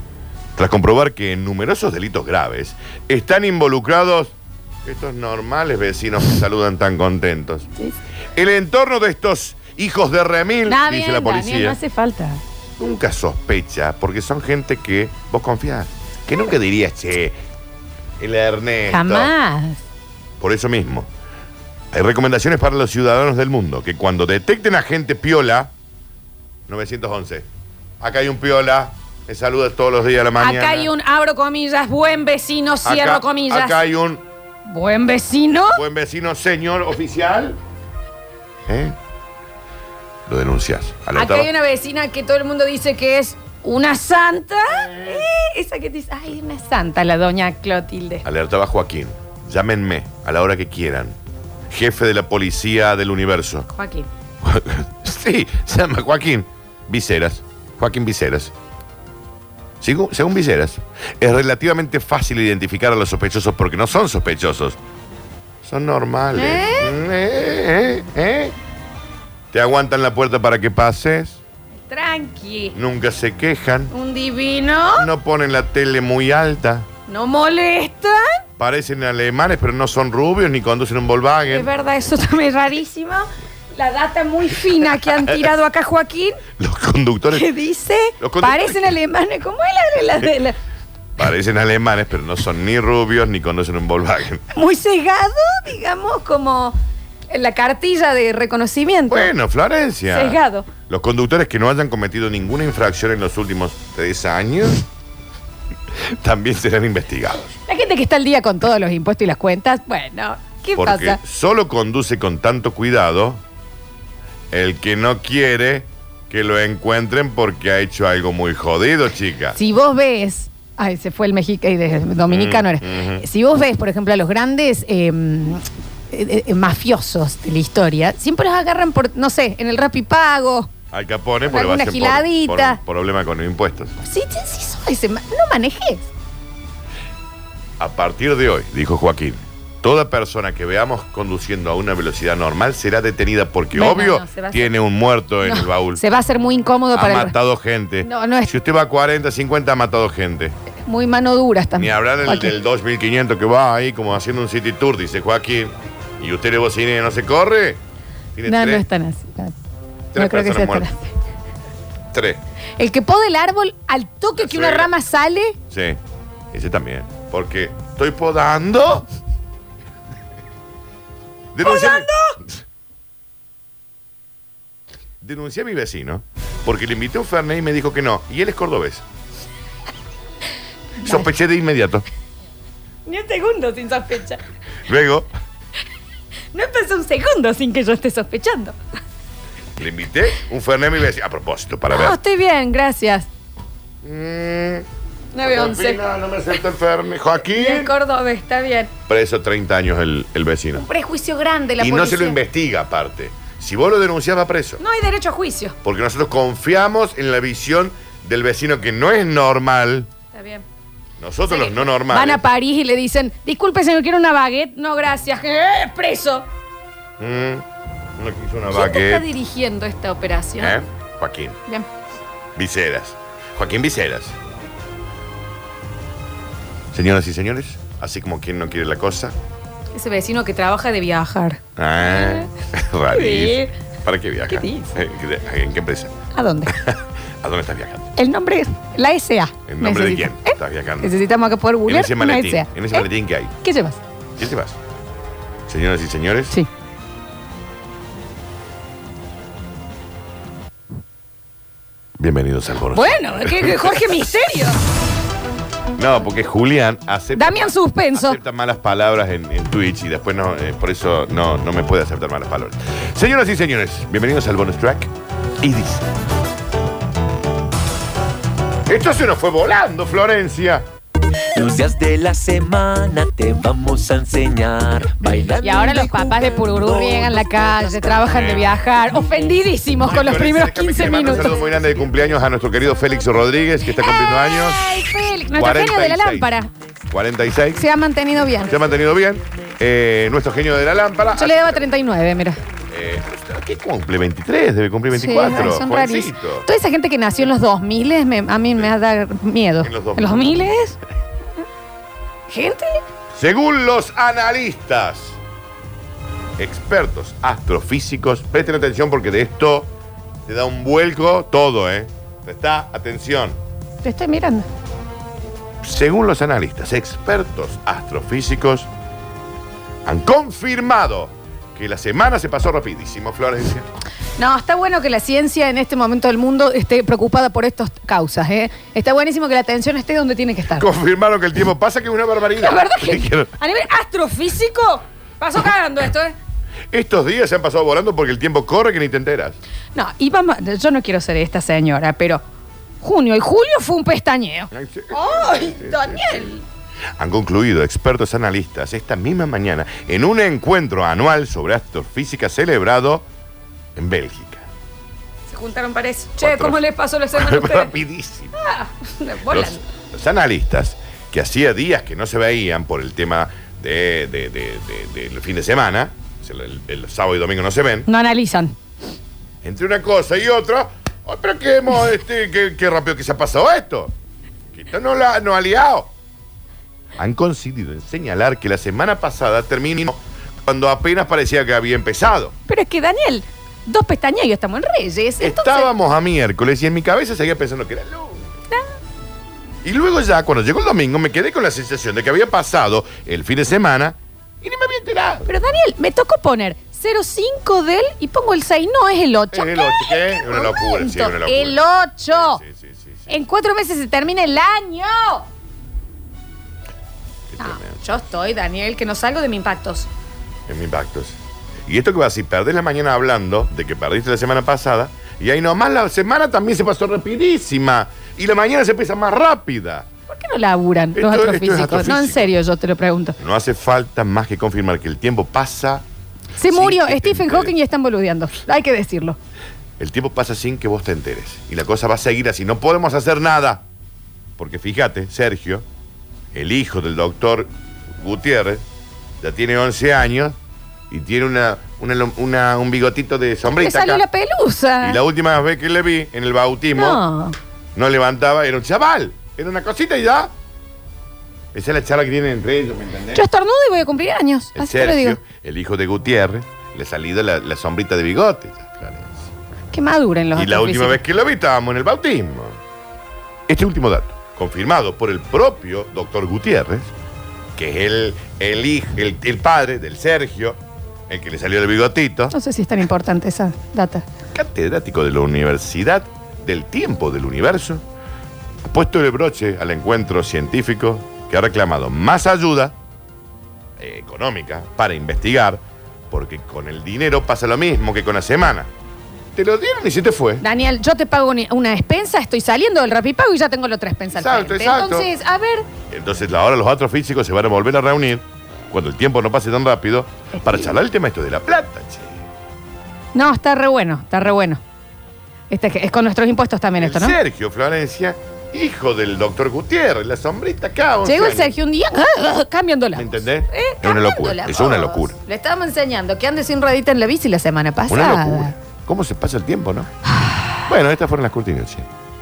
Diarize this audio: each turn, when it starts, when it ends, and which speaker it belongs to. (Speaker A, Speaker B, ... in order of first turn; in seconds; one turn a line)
Speaker A: 0.6-7.7
Speaker A: 8.3-11.8
Speaker B: 10.7-12.4
Speaker A: 12.8-17.4
Speaker A: 18.2-19.3
Speaker B: 18.9-19.8
Speaker A: 20.4-21.1
Speaker A: 21.9-25.7
Speaker A: 26.7-27.5
Speaker A: 28.0-30.9
Speaker B: 30.4-33.8
Speaker A: 32.8-34.2
Speaker B: 34.6-35.8
Speaker A: 35.7-37.6
Speaker A: 38.7-39.0
Speaker A: 40.3-41.5
Speaker B: 41.1-48.2
Speaker A: 44.7-45.3
Speaker A: 48.2-51.2
Speaker A: 51.7-53.7
Speaker B: 53.7-54.1
Speaker A: 54.4-58.5
Speaker A: 59.8-64.8
Speaker A: 65.6-68.5
Speaker B: 66.3-67.0
Speaker A: 69.5-71.4
Speaker B: 71.9-72.8
Speaker A: 72.8-73.9
Speaker B: 73.9-75.1
Speaker A: 74.9-76.9
Speaker B: 77.1-78.4
Speaker A: 78.6-81.7
Speaker B: 81.5-86.4
Speaker A: 86.6-87.5
Speaker B: 87.3-90.6
Speaker A: 88.2-89.0
Speaker A: 91.2-94.5
Speaker B: 94.5-96.8
Speaker B: 97.3-99.3
Speaker A: 99.1-104.8
Speaker B: 100.1-100.7
Speaker A: 106.0-107.6
Speaker B: 107.7-111.2
Speaker A: 110.8-113.4
Speaker A: 114.5-119.6
Speaker B: 119.6-130.7
Speaker A: 122.3-123.2
Speaker A: 130.9-134.0
Speaker B: 131.5-132.8
Speaker B: 134.0-136.1
Speaker A: 137.8-146.0
Speaker B: 143.7-144.7
Speaker B: 145.4-147.3
Speaker A: 146.9-150.6
Speaker B: 148.0-148.5
Speaker B: 150.9-152.5
Speaker A: 151.8-157.8
Speaker A: 158.4-158.9
Speaker B: 158.4-159.6
Speaker A: 160.1-160.9
Speaker B: 160.2-161.1
Speaker A: 162.1-162.4
Speaker B: 162.8-165.6
Speaker A: 164.3-164.9
Speaker A: 165.7-166.0
Speaker A: 166.5-169.1
Speaker A: 171.5-172.6
Speaker B: 171.6-172.4
Speaker A: 175.2-179.0
Speaker B: 181.0-181.3
Speaker A: 181.0-182.1
Speaker B: 183.1-184.4
Speaker A: 184.9-185.3
Speaker B: 186.5-188.8
Speaker A: 189.8-192.2
Speaker B: 191.9-193.3
Speaker A: 194.0-194.9
Speaker B: 195.3-196.0
Speaker A: 195.4-197.9
Speaker B: 197.5-198.9
Speaker A: 199.1-200.8
Speaker B: 200.8-202.4
Speaker A: 201.8-204.8
Speaker B: 204.8-205.8
Speaker A: 205.8-210.1
Speaker B: 210.3-210.6
Speaker A: 211.2-212.4
Speaker B: 211.5-216.5
Speaker A: 217.2-217.7
Speaker A: 218.2-219.3
Speaker B: 218.7-220.8
Speaker A: 220.6-221.6
Speaker A: 222.6-224.4
Speaker A: 226.9-229.3
Speaker B: 229.9-232.5
Speaker A: 231.8-236.1
Speaker B: 233.1-233.7
Speaker B: 234.5-234.9
Speaker B: 236.3-236.8
Speaker A: 236.7-238.1
Speaker B: 238.2-243.1
Speaker A: 239.7-241.2
Speaker A: 241.9-243.6
Speaker B: 243.6-244.0
Speaker A: 244.4-244.8
Speaker A: 245.7-246.6
Speaker A: 252.2-254.1
Speaker B: 252.9-254.8
Speaker A: 256.0-266.1
Speaker B: 257.4-258.4
Speaker A: 268.9-270.9
Speaker C: 271.5-278.5
Speaker B: 275.6-281.7
Speaker A: 278.3-278.7
Speaker A: 280.0-286.5
Speaker B: 284.0-286.7
Speaker A: 287.1-287.8
Speaker B: 287.7-288.8
Speaker A: 288.6-292.0
Speaker B: 291.4-292.6
Speaker A: 292.9-296.7
Speaker B: 295.1-301.0
Speaker A: 299.8-300.6
Speaker B: 302.5-303.0
Speaker A: 303.3-305.4
Speaker A: 306.6-309.9
Speaker A: 310.5-313.6
Speaker B: 314.0-314.7
Speaker A: 315.8-318.9
Speaker A: 320.1-323.9
Speaker B: 324.4-330.9
Speaker A: 330.7-333.5
Speaker B: 332.6-336.4
Speaker A: 336.9-339.6
Speaker B: 339.9-342.4
Speaker B: 343.0-346.6
Speaker A: 344.7-346.5
Speaker A: 347.2-353.3
Speaker A: 354.0-354.7
Speaker B: 355.5-357.9
Speaker A: 356.4-356.8
Speaker A: 357.3-358.5
Speaker B: 358.6-359.8
Speaker A: 359.5-368.1
Speaker B: 368.1-368.8
Speaker A: 369.6-374.1
Speaker A: 374.7-376.1
Speaker A: 377.2-382.6
Speaker B: 382.7-385.9
Speaker A: 385.4-388.5
Speaker A: 389.8-395.5
Speaker B: 395.5-402.6
Speaker A: 399.5-403.3
Speaker B: 403.3-405.5
Speaker A: 407.5-408.2
Speaker B: 407.6-410.1
Speaker A: 410.7-420.1
Speaker B: 420.3-423.4
Speaker A: 421.1-422.5
Speaker A: 423.4-426.1
Speaker B: 426.6-429.4
Speaker A: 426.6-427.7
Speaker A: 430.0-433.9
Speaker A: 434.6-435.9
Speaker A: 436.5-438.9
Speaker A: 439.4-440.6
Speaker A: 441.1-444.2
Speaker B: 443.7-445.2
Speaker A: 445.0-447.2
Speaker B: 446.9-447.6
Speaker A: 447.9-450.5
Speaker A: 451.7-453.4
Speaker B: 453.3-455.4
Speaker A: 454.8-459.5
Speaker B: 459.9-461.2
Speaker A: 460.6-462.8
Speaker A: 463.7-467.1
Speaker A: 467.8-472.5
Speaker B: 472.5-474.2
Speaker A: 474.5-478.0
Speaker A: 478.9-483.0
Speaker A: 484.0-488.9
Speaker A: 489.6-490.6
Speaker B: 490.6-495.9
Speaker A: 494.4-495.3
Speaker A: 496.1-502.4
Speaker B: 500.5-500.9
Speaker B: 503.4-504.8
Speaker B: 505.7-507.4
Speaker A: 507.0-511.8
Speaker B: 511.2-518.7
Speaker A: 513.1-515.4
Speaker A: 518.1-520.1
Speaker B: 520.4-520.7
Speaker A: 520.9-522.1